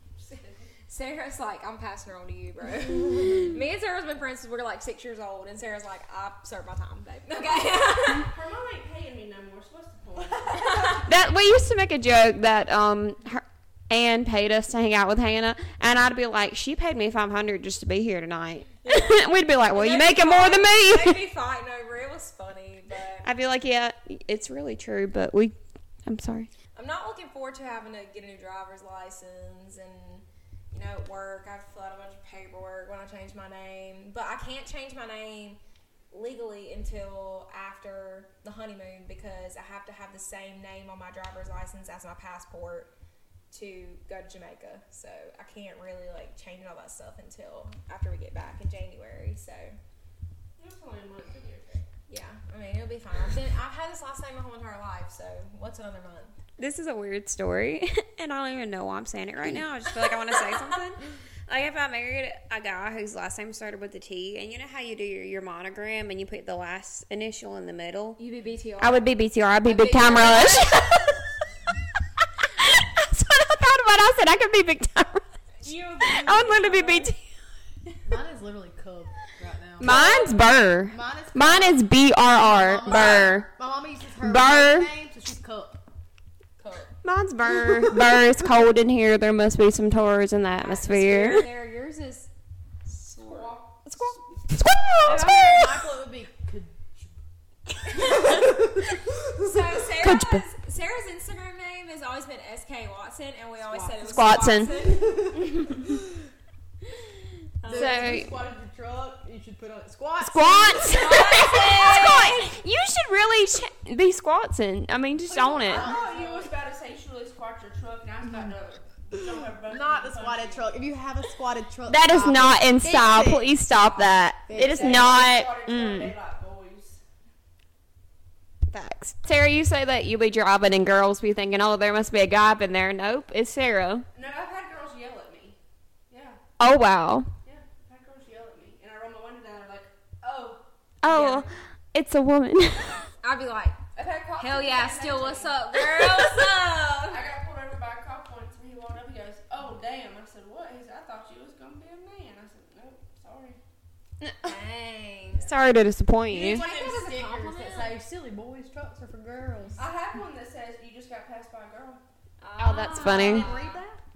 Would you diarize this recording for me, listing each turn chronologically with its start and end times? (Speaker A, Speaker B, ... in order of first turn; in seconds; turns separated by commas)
Speaker A: 0.2-0.7, Speaker B: 0.3-8.3, Speaker A: 8.0-11.0, Speaker B: 10.5-11.1, Speaker C: 11.0-21.2, Speaker B: 18.8-23.3, Speaker C: 23.2-26.5, Speaker B: 26.8-35.6, Speaker B: 36.1-42.9, Speaker B: 43.5-49.8, Speaker A: 50.6-51.8, Speaker B: 52.1-56.4, Speaker C: 56.6-68.2, Speaker B: 68.2-69.1, Speaker C: 68.8-71.2, Speaker B: 69.6-71.1, Speaker C: 72.5-75.2, Speaker B: 75.6-77.0, Speaker A: 75.7-77.0, Speaker C: 76.0-77.2, Speaker D: 78.0-80.1, Speaker C: 79.8-83.5, Speaker B: 79.8-80.4, Speaker D: 80.9-85.8, Speaker C: 84.2-84.9, Speaker B: 86.6-86.9, Speaker C: 87.0-91.5, Speaker D: 87.5-88.2, Speaker B: 90.6-92.3, Speaker B: 92.9-93.6, Speaker A: 93.2-94.2, Speaker C: 93.9-95.8, Speaker D: 95.0-97.1, Speaker D: 97.8-99.5, Speaker B: 97.9-98.5, Speaker B: 99.4-105.4, Speaker C: 100.0-100.4, Speaker C: 103.8-104.8, Speaker D: 104.8-106.0, Speaker B: 107.6-108.2, Speaker D: 107.7-111.2, Speaker C: 107.7-108.3, Speaker C: 110.2-115.9, Speaker B: 110.8-112.5, Speaker A: 115.4-120.7, Speaker D: 115.6-116.5, Speaker D: 119.4-123.5, Speaker C: 121.9-126.1, Speaker D: 124.5-125.2, Speaker A: 124.6-127.0, Speaker C: 128.7-134.1, Speaker A: 134.1-135.6, Speaker A: 136.1-136.4, Speaker C: 136.6-137.3, Speaker A: 137.4-140.6, Speaker C: 141.0-143.1, Speaker B: 141.1-141.5, Speaker B: 143.2-143.8, Speaker A: 143.9-145.6, Speaker B: 144.4-147.2, Speaker A: 147.1-153.6, Speaker B: 154.4-155.5, Speaker C: 155.4-156.7, Speaker D: 156.3-159.8, Speaker B: 156.3-158.0, Speaker A: 159.8-162.0, Speaker B: 162.4-163.8, Speaker C: 162.6-163.5, Speaker D: 162.9-164.0